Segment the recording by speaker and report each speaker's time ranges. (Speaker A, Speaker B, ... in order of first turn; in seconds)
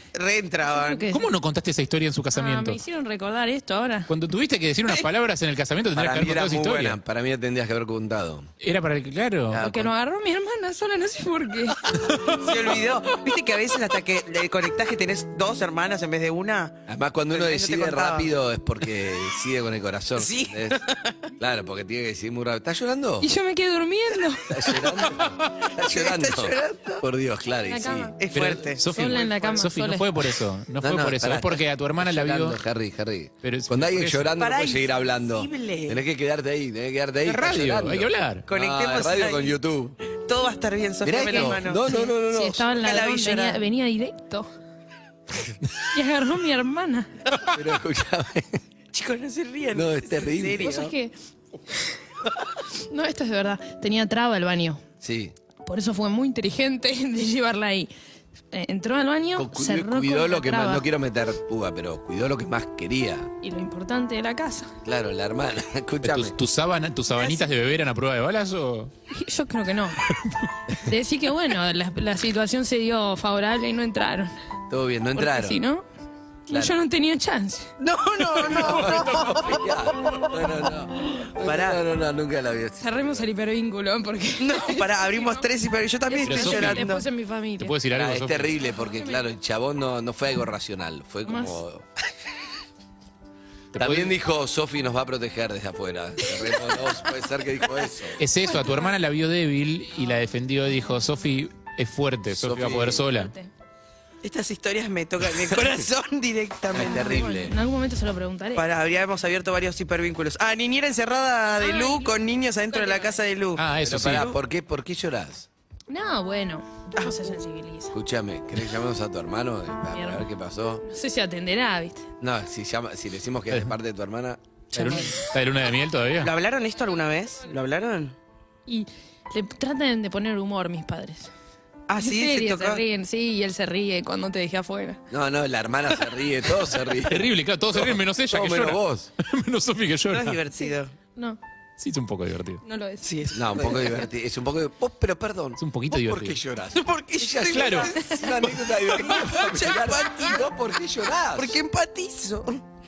Speaker A: 0.1-1.1, 12.3-18.3, 20.2-21.3, 25.8-27.0, 28.2-29.6, 34.4-36.0, 38.5-39.6, 40.2-41.9, 42.8-43.6, 48.9-50.9, 77.8-79.6, 81.2-81.8, 84.4-87.0, 104.2-107.2, 108.6-114.3, 117.0-117.3, 126.2-128.2, 131.9-132.8, 140.1-140.9, 143.0-144.1, 146.7-150.5, 151.3-152.6
Speaker B: 0.7-1.2, 2.4-4.1, 9.6-11.8, 23.2-24.7, 27.7-28.1, 28.9-30.1, 41.2-44.5, 45.9-47.1, 50.6-51.1, 52.9-54.8, 55.6-57.9, 58.5-60.9, 63.4-64.7, 69.1-70.0, 70.9-74.3, 75.1-75.8, 76.5-77.7, 82.8-85.5, 86.1-87.7, 88.8-89.2, 91.3-91.6, 103.1-103.5, 106.8-108.7, 111.6-112.2, 112.7-113.2, 115.9-118.0, 119.9-120.2, 120.8-122.0, 128.7-131.3, 132.0-135.0, 140.6-141.4, 142.6-143.1
Speaker C: 1.1-2.8, 4.1-7.0, 8.6-9.7, 28.3-32.6, 33.4-34.3, 37.2-38.5, 66.0-68.9, 78.5-79.5, 86.2-86.9, 87.6-88.5, 93.7-94.1, 98.2-103.3, 113.6-114.3, 124.7-126.3, 137.1-140.4, 141.8-142.6, 145.6-146.4, 147.5-147.9
Speaker D: 5.9-8.5, 9.5-9.9, 16.9-20.8, 21.4-23.3, 24.5-28.1, 30.8-40.0, 41.0-42.8, 47.5-48.6, 49.7-50.8, 55.0-55.3, 59.4-63.3, 64.8-66.3, 74.7-75.6, 76.5-76.7, 78.5-83.3, 87.9-91.8, 93.8-98.2, 102.3-103.1, 106.7-107.6, 113.8-115.5, 117.9-120.8, 122.2-125.0, 135.1-139.1, 143.3-151.6